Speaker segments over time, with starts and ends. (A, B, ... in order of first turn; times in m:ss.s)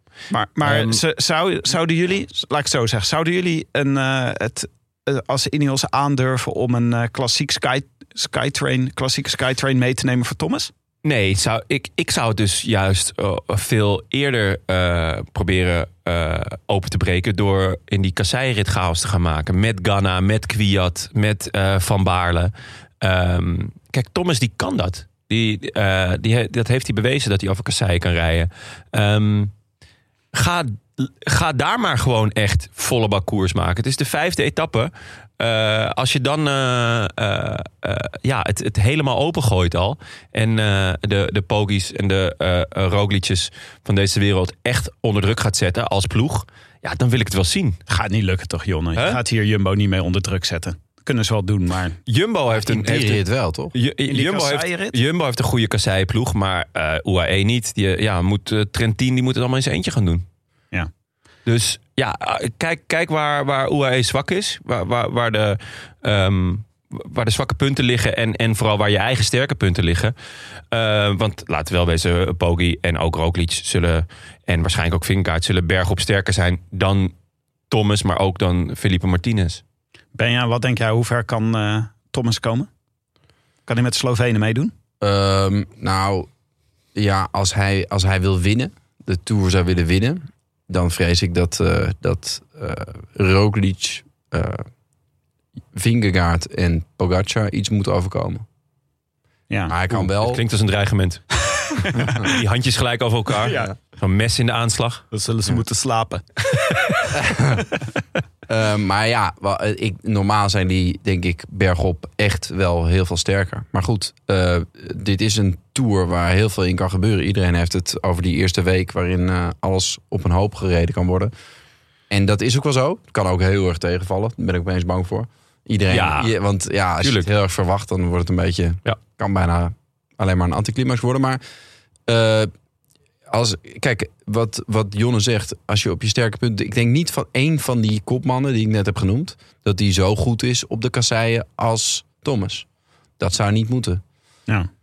0:00.3-0:10.7 A
0:00.6-0:01.0 B
0:11.0-0:29.5 B
0:30.3-0:47.8 B
0:47.9-0:52.0 A
0:52.0-1:00.2 B
0:52.6-0:53.7 C
0:54.1-0:55.0 A
1:01.4-1:10.1 B
1:10.7-1:17.1 B
1:17.7-1:19.6 B
1:20.1-1:22.7 A
1:23.7-1:24.7 A
1:25.0-1:26.3 C
1:26.9-1:34.6 C
1:35.7-1:38.4 C
1:39.7-1:40.4 C
1:39.9-1:41.2 B
1:41.8-1:42.1 A
1:42.0-1:45.0 B
1:45.1-1:46.2 A
1:47.1-1:47.7 C
1:48.5-2:01.3 C
2:02.1-2:11.4 C
2:05.9-2:06.3 B
2:07.0-2:07.3 B
2:12.1-2:12.5 C
2:13.3-2:22.6 C
2:23.2-2:24.0 C